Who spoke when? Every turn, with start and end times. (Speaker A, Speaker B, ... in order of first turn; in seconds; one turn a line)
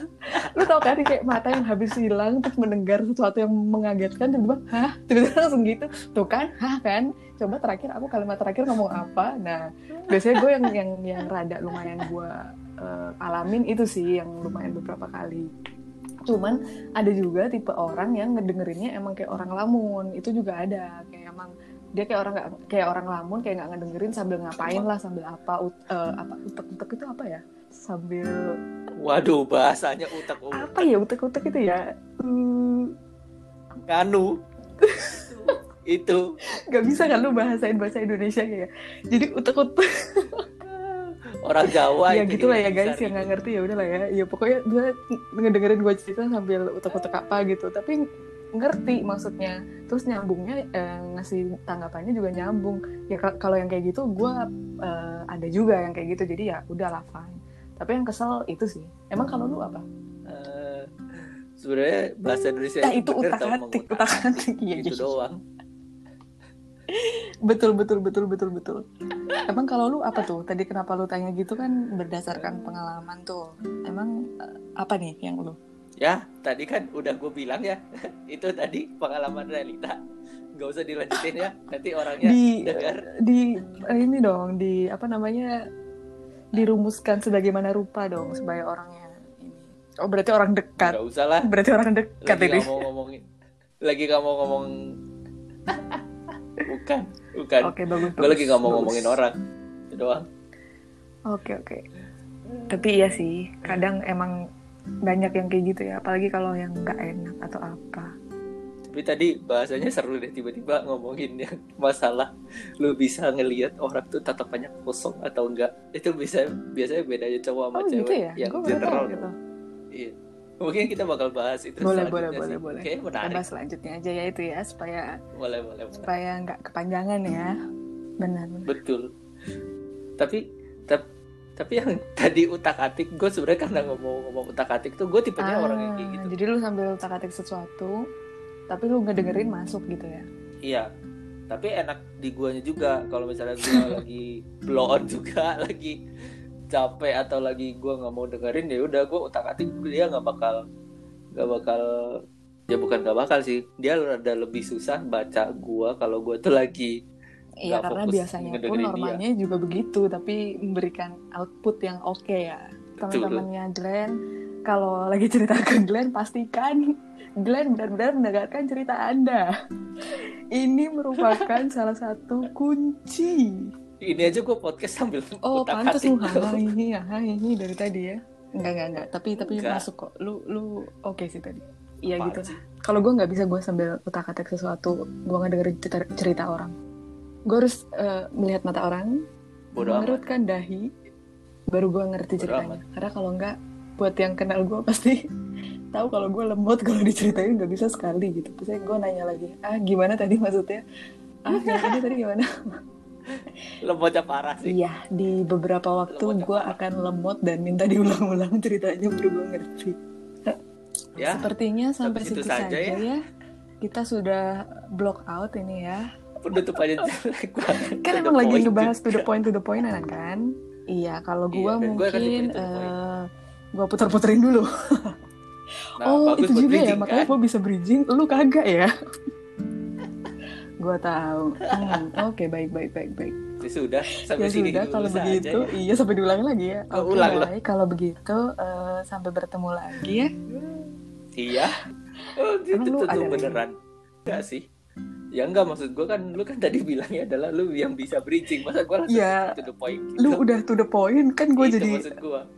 Speaker A: 0.4-15.5
Speaker A: 16.3-28.5
Speaker B: 24.6-24.9
Speaker B: 29.0-30.9
Speaker A: 30.5-32.9
Speaker B: 33.9-34.3
Speaker A: 34.8-35.5
Speaker B: 35.1-36.2
Speaker A: 36.7-40.5
Speaker B: 40.6-43.3
Speaker A: 41.7-48.0
Speaker A: 48.6-59.8
Speaker B: 60.3-64.0
Speaker A: 62.8-65.1
Speaker B: 64.8-65.4
Speaker A: 66.9-68.8
Speaker A: 69.5-74.1
Speaker A: 74.8-75.6
Speaker B: 76.0-77.8
Speaker B: 78.3-80.0
Speaker B: 80.6-83.0
Speaker A: 82.2-85.5
Speaker A: 86.5-92.7
Speaker B: 90.8-91.5
Speaker B: 92.2-93.2
Speaker B: 93.9-94.7
Speaker B: 95.7-96.0
Speaker B: 96.7-99.3
Speaker A: 97.6-99.2
Speaker B: 99.9-100.2
Speaker A: 101.3-101.8
Speaker A: 102.7-104.3
Speaker A: 105.1-108.1
Speaker B: 108.9-112.3
Speaker B: 112.8-119.3
Speaker A: 117.8-119.3
Speaker B: 119.9-123.4
Speaker A: 121.8-125.1
Speaker B: 125.3-126.1
Speaker A: 126.0-127.5
Speaker A: 128.2-128.7
Speaker B: 128.7-129.1
Speaker B: 130.2-131.0
Speaker B: 131.6-136.3
Speaker A: 135.4-137.9
Speaker A: 138.7-140.3
Speaker B: 141.5-146.0
Speaker A: 143.7-143.9
Speaker B: 146.7-150.6
Speaker B: 151.4-151.8
Speaker B: 152.7-156.9
Speaker A: 157.6-164.1
Speaker B: 157.7-159.2
Speaker B: 163.0-163.4
Speaker A: 164.7-166.8
Speaker A: 167.4-169.5
Speaker A: 170.6-173.6
Speaker B: 171.2-171.6
Speaker B: 174.0-176.7
Speaker A: 175.5-186.7
Speaker B: 179.4-179.8
Speaker B: 182.1-182.6
Speaker A: 187.5-189.1
Speaker B: 189.8-190.2
Speaker A: 189.8-190.8
Speaker A: 191.7-195.2
Speaker B: 192.4-192.8
Speaker A: 195.9-200.8
Speaker A: 201.5-202.4
Speaker B: 201.5-202.1
Speaker B: 203.3-204.8
Speaker A: 204.6-210.0
Speaker B: 206.1-206.8
Speaker B: 211.2-211.5
Speaker A: 211.2-213.2
Speaker B: 212.0-213.0
Speaker A: 213.8-214.5
Speaker A: 215.0-216.0
Speaker B: 216.4-219.2
Speaker A: 218.0-223.2
Speaker B: 221.5-222.9
Speaker A: 223.8-225.1
Speaker B: 226.0-227.3
Speaker A: 226.1-228.9
Speaker A: 230.8-233.4
Speaker B: 233.6-235.7
Speaker A: 234.4-240.3
Speaker B: 236.9-237.5
Speaker B: 240.5-241.8
Speaker B: 242.4-243.8
Speaker A: 242.7-243.6
Speaker B: 244.3-244.6
Speaker B: 245.4-250.4
Speaker A: 249.1-249.4
Speaker A: 250.2-252.1
Speaker B: 251.6-252.4